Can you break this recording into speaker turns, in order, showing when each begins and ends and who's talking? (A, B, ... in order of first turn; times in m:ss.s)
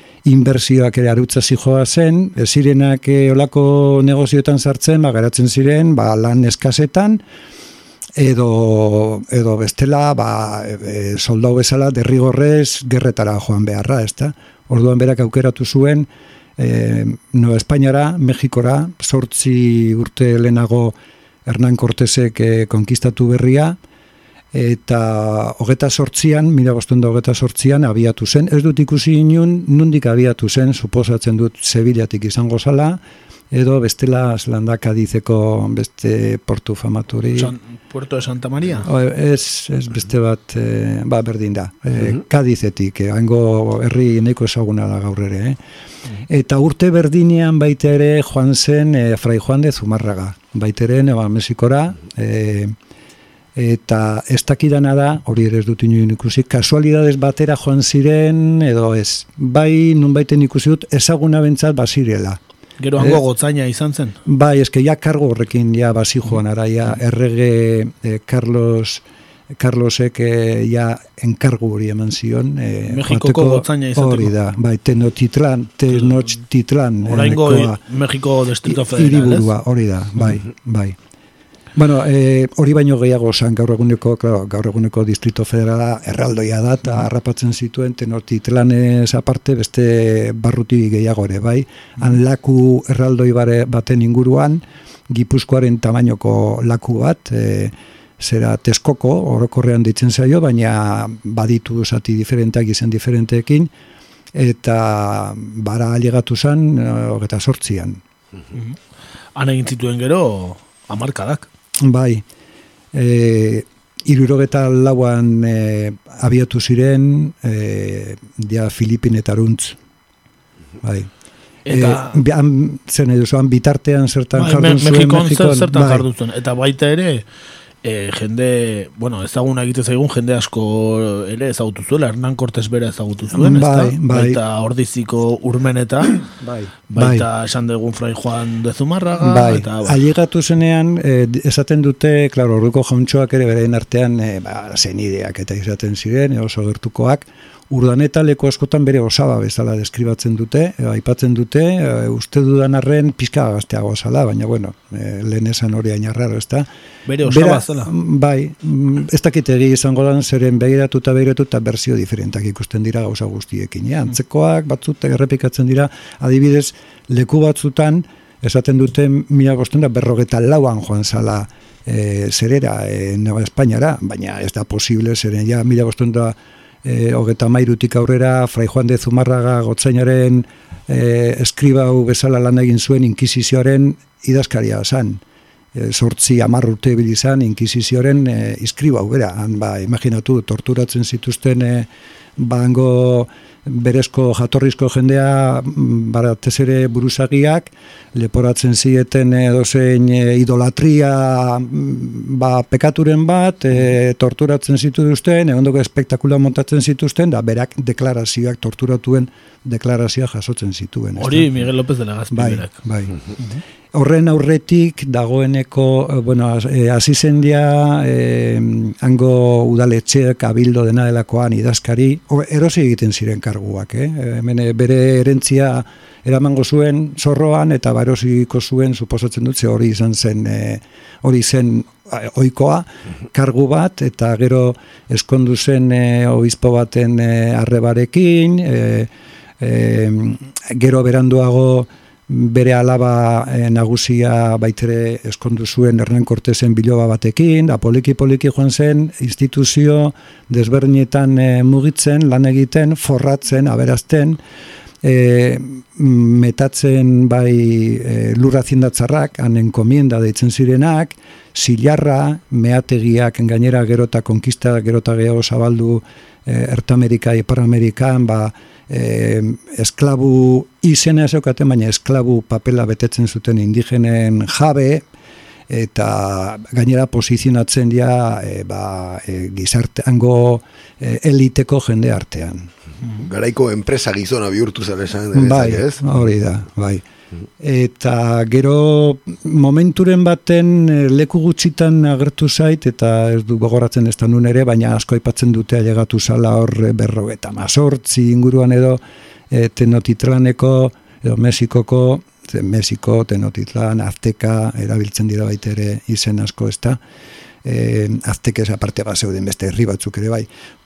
0:00.2-0:07.2 A
0:08.2-0:23.8 A
0:24.5-0:37.6 A
0:37.3-0:38.9 B
0:38.8-0:45.6 A
0:46.3-0:52.8 A
0:53.6-1:02.4 A
1:02.8-1:04.2 B
1:03.0-1:03.2 A
1:04.3-1:09.0 A
1:09.6-1:17.8 A
1:12.9-1:14.3 B
1:16.0-1:16.3 B
1:17.0-1:19.5 B
1:18.7-1:21.0 A
1:21.8-1:43.7 A
1:44.3-1:48.0 A
1:49.4-1:51.5 B
1:51.8-1:52.2 A
1:52.9-1:59.8 A
2:00.8-2:01.1 A
2:01.7-2:02.2 B
2:01.7-2:06.0 A
2:04.4-2:07.2 B
2:07.8-2:16.2 B
2:13.3-2:14.4 A
2:16.3-2:17.3 A
2:16.9-2:20.0 B
2:19.2-2:36.7 A
2:37.1-2:37.9 B
2:37.2-3:05.2 A
3:05.7-3:31.5 A
3:31.2-3:32.8 B
3:32.3-3:33.2 A
3:33.9-4:14.4 A
4:15.0-4:35.0 A
4:35.7-4:42.7 A
4:43.2-4:46.0 C
4:45.3-4:47.0 A
4:47.6-5:07.0 A
5:07.6-5:10.5 A